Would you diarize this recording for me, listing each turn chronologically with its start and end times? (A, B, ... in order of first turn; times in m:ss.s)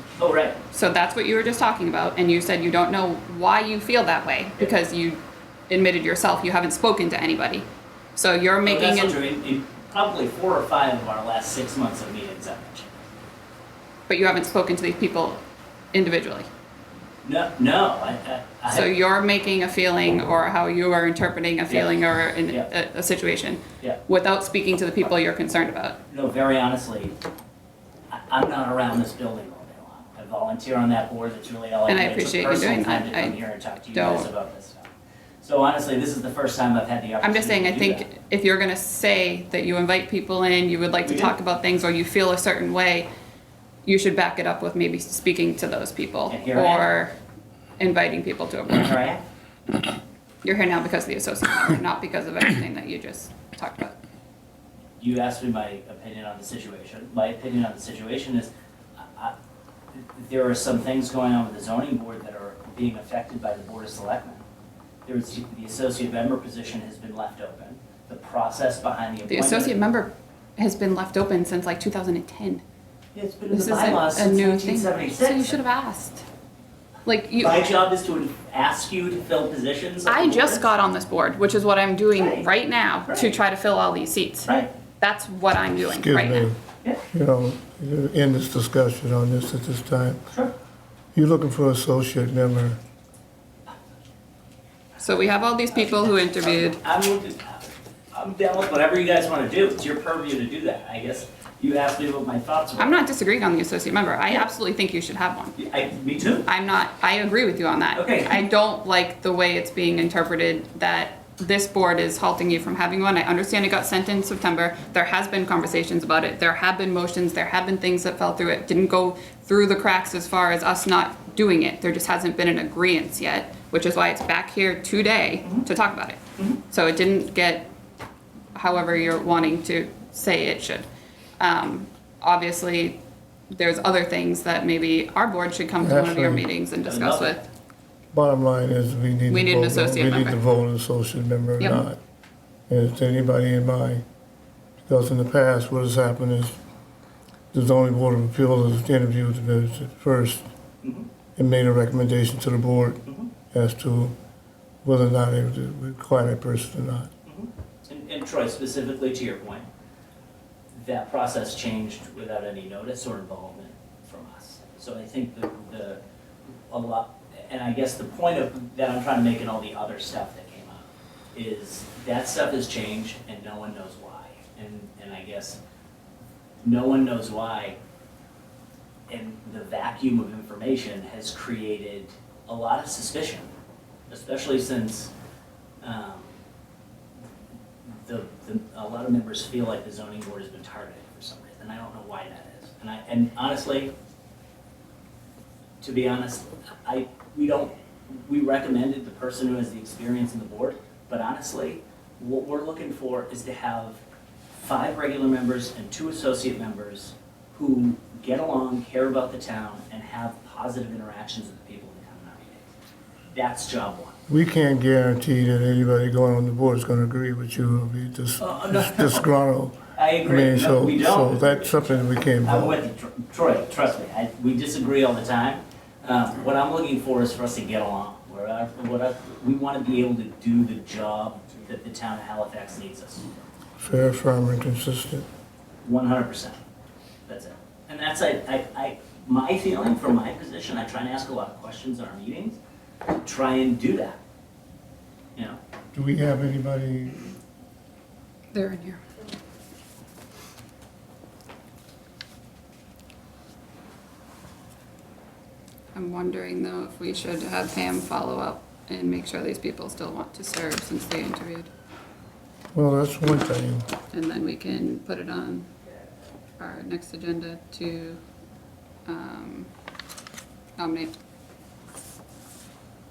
0:00.2-0:00.6 A
0:00.7-0:07.6 B
0:08.2-0:09.2 B
0:08.6-0:12.9 A
0:14.1-0:15.4 B
0:15.9-0:16.5 B
0:17.2-0:18.9 A
0:18.7-0:26.0 B
0:21.7-0:22.0 A
0:26.1-0:27.1 A
0:28.1-0:34.9 A
0:31.9-0:33.4 B
0:33.9-0:34.3 B
0:35.4-0:38.1 A
0:37.2-0:43.1 B
0:41.0-0:41.3 A
0:43.8-0:47.1 B
0:46.3-0:46.8 A
0:47.8-0:48.9 B
0:48.7-0:49.2 A
0:50.4-0:54.0 B
0:55.0-0:58.5 A
0:59.9-1:04.4 A
1:05.1-1:09.8 A
1:09.3-1:12.6 B
1:13.2-1:15.6 A
1:13.5-1:16.2 B
1:17.0-1:17.6 B
1:17.4-1:20.7 A
1:20.1-1:26.5 B
1:22.2-1:22.5 A
1:24.5-1:24.7 A
1:25.8-1:26.6 C
1:27.1-1:30.2 C
1:31.1-1:32.8 C
1:35.0-1:36.8 B
1:35.7-1:43.0 A
1:42.8-1:45.6 B
1:45.6-1:46.5 A
1:46.4-2:07.7 B
1:47.9-1:48.4 A
2:08.6-2:10.8 B
2:11.4-2:13.0 B
2:13.5-2:17.4 B
2:15.8-2:16.5 C
2:16.8-2:17.4 A
2:18.1-2:22.0 C
2:19.3-2:20.4 B
2:22.7-2:24.0 C
2:24.9-2:26.6 C
2:27.5-2:30.4 C
2:30.8-2:31.1 A
2:31.4-2:34.2 C
2:34.8-2:37.1 C
2:37.2-2:39.7 A
2:40.7-2:46.0 A
2:46.7-2:55.6 A
2:56.6-2:57.8 A
2:59.1-3:03.5 A
3:04.1-3:05.1 A
3:05.8-3:06.3 A
3:07.9-3:13.9 A
3:15.8-3:24.0 A
3:24.5-3:32.7 A
3:33.3-3:34.2 A
3:34.3-3:42.8 C
3:38.4-3:39.3 A
3:39.9-3:53.3 A
3:53.8-3:55.2 C
3:55.8-3:56.6 A
3:57.3-4:02.6 A
4:03.1-4:04.2 A
4:05.9-4:07.3 C
4:08.5-4:09.0 B
4:15.9-4:21.7 B
4:22.7-4:23.9 C
4:24.1-4:25.7 B
4:26.6-4:28.2 B
4:29.1-4:29.7 B
4:30.8-4:31.1 B